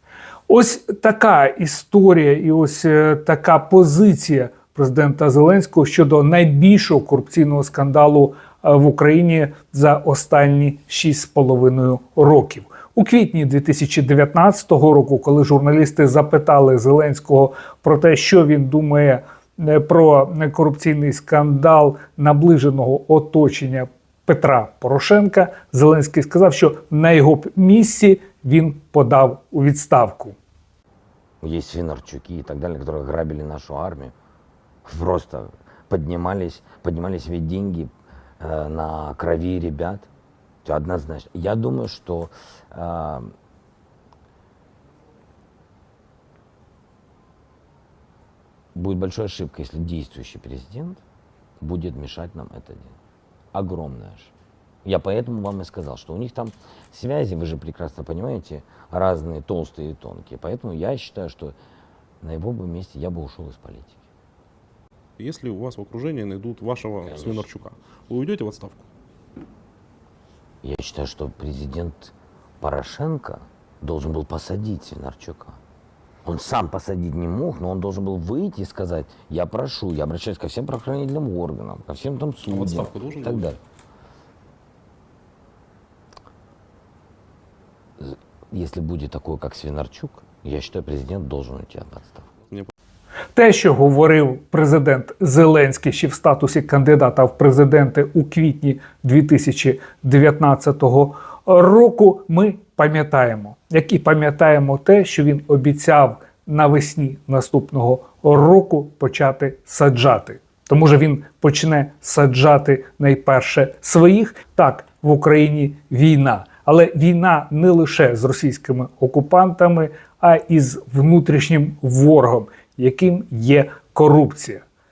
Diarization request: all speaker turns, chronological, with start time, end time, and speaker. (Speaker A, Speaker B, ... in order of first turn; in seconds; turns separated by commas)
Speaker A: 0.5-30.4, Speaker B: 31.4-34.1, Speaker B: 34.9-40.1, Speaker B: 40.6-43.3, Speaker B: 48.8-51.0, Speaker B: 51.6-53.0, Speaker B: 53.5-54.3, Speaker B: 54.8-61.5, Speaker B: 62.2-64.0, Speaker C: 65.2-68.8, Speaker B: 67.1-67.5, Speaker B: 70.6-75.6, Speaker B: 76.2-83.6, Speaker C: 82.4-83.5, Speaker B: 88.0-92.3, Speaker A: 93.4-124.7